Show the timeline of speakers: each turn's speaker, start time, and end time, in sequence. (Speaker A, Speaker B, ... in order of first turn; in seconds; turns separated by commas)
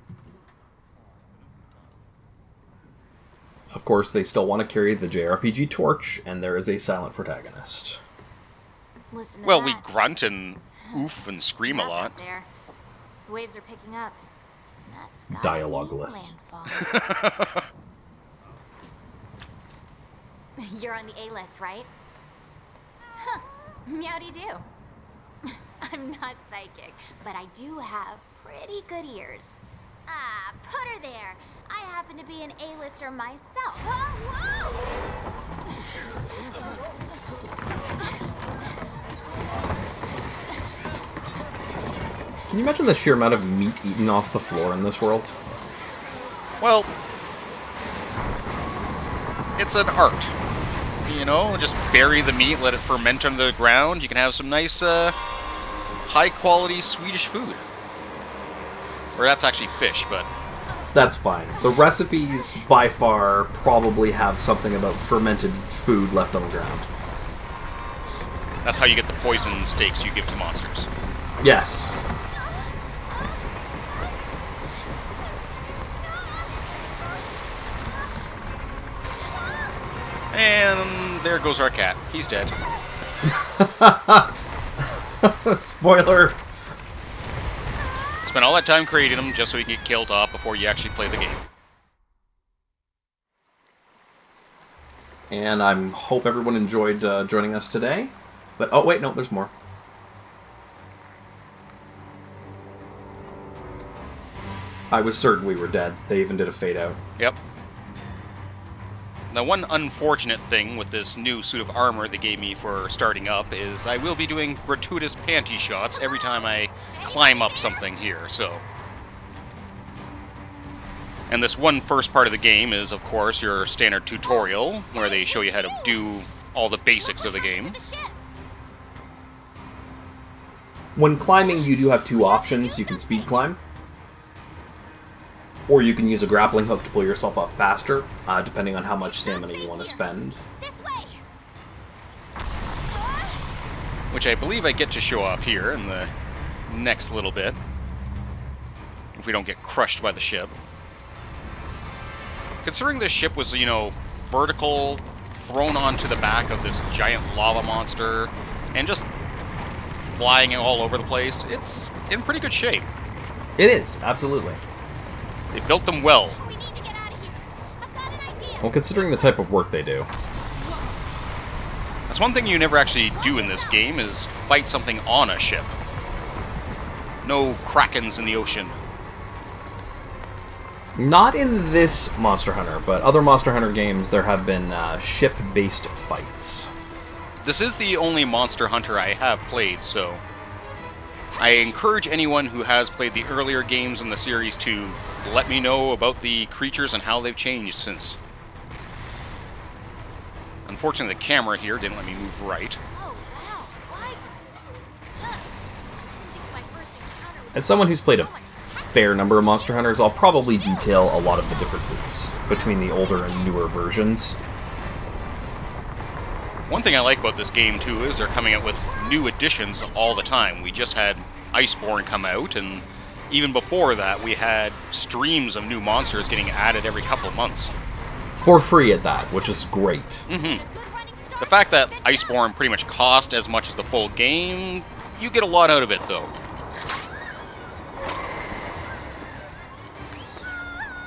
Speaker A: 3.7-8.0, Speaker B: 9.1-9.9, Speaker C: 9.4-12.2, Speaker B: 11.6-12.5, Speaker B: 13.3-14.2, Speaker B: 14.8-17.1, Speaker A: 15.3-16.3, Speaker C: 16.8-17.6, Speaker B: 20.6-21.9, Speaker B: 23.2-24.7, Speaker B: 25.4-34.9, Speaker A: 42.5-45.4, Speaker C: 46.6-46.9, Speaker C: 49.6-50.4, Speaker C: 51.0-55.1, Speaker C: 56.1-57.6, Speaker C: 59.2-60.3, Speaker B: 60.7-61.9, Speaker A: 60.9-66.9, Speaker C: 68.6-70.9, Speaker B: 69.3-69.7, Speaker A: 71.4-71.9, Speaker C: 80.3-82.5, Speaker A: 83.2-86.4, Speaker C: 88.2-91.4, Speaker A: 95.3-99.5, Speaker A: 104.9-107.0, Speaker C: 109.3-118.6, Speaker B: 116.0-117.9, Speaker C: 121.3-127.8, Speaker B: 124.2-126.1, Speaker B: 126.9-128.2, Speaker A: 130.9-133.6, Speaker B: 131.3-133.6, Speaker A: 135.7-140.4, Speaker B: 139.0-141.2, Speaker B: 142.8-143.5, Speaker C: 144.1-146.1, Speaker C: 146.7-147.6, Speaker C: 149.1-150.5, Speaker C: 152.6-159.1, Speaker C: 160.1-162.9, Speaker A: 163.6-164.6, Speaker C: 165.5-166.4, Speaker B: 166.3-169.4, Speaker A: 168.6-170.1, Speaker B: 170.5-171.1, Speaker C: 172.1-175.7, Speaker B: 173.1-174.0, Speaker C: 177.2-178.8, Speaker A: 180.9-186.7, Speaker C: 187.4-190.2, Speaker B: 191.3-191.8, Speaker C: 191.4-198.2, Speaker C: 200.7-202.8, Speaker B: 202.9-205.6, Speaker B: 206.1-213.5, Speaker A: 207.5-208.3, Speaker A: 208.9-214.4, Speaker C: 216.7-227.7, Speaker B: 218.7-220.6, Speaker B: 226.7-227.8, Speaker A: 228.4-230.2, Speaker C: 230.3-230.7, Speaker B: 230.3-232.5, Speaker C: 231.4-236.3